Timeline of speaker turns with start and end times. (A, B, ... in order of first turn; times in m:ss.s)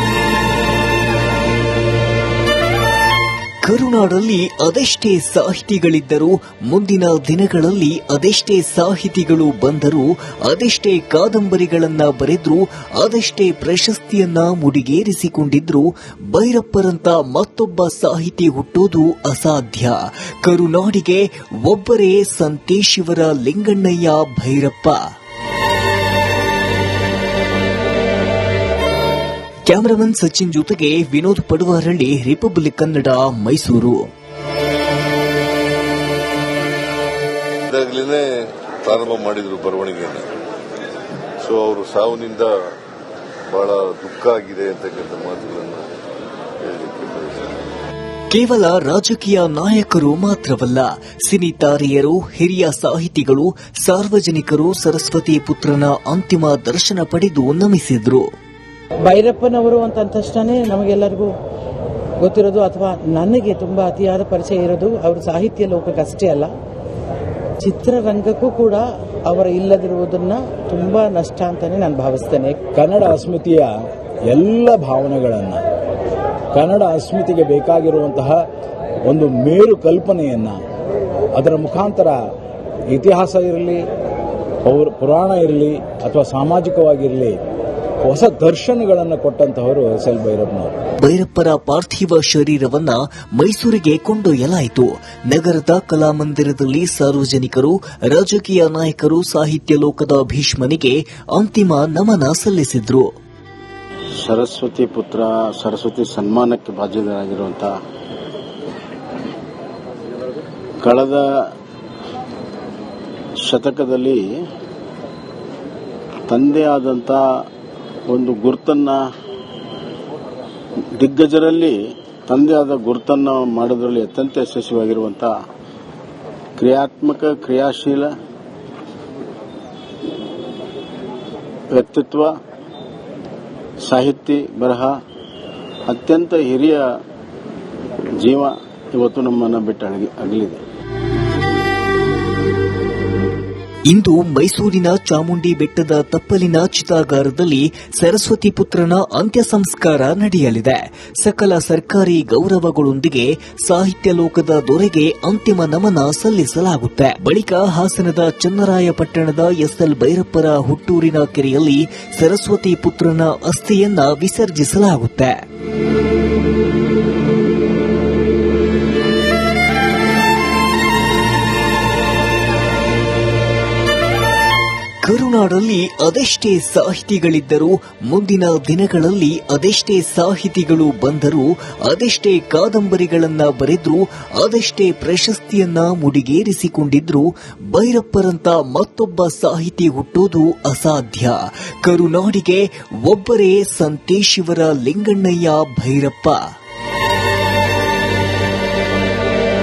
0:03.6-0:25.0 A
0:29.7-0:34.0 A
0:37.7-0:38.3 B
0:38.8-0:40.3 B
0:41.4-0:42.5 B
0:43.5-0:45.9 B
0:46.6-0:47.5 B
0:48.3-0:58.2 A
0:59.0-1:01.3 C
1:02.2-1:06.5 C
1:07.6-1:12.7 C
1:12.7-1:13.7 D
1:14.3-1:15.6 D
1:16.5-1:18.4 D
1:19.0-1:20.6 D
1:21.4-1:22.2 D
1:22.9-1:23.8 D
1:24.6-1:27.4 D
1:28.0-1:30.8 D
1:31.0-1:43.0 A
1:44.2-1:47.8 E
1:50.8-1:51.5 E
1:53.4-1:54.4 E
1:56.3-1:57.4 E
1:58.1-1:59.0 E
2:01.0-2:05.3 E
2:06.6-2:08.1 E
2:11.7-2:12.4 E
2:13.8-2:15.0 E
2:15.9-2:16.9 E
2:18.2-2:20.6 E
2:23.9-2:45.4 A
2:55.0-3:16.4 A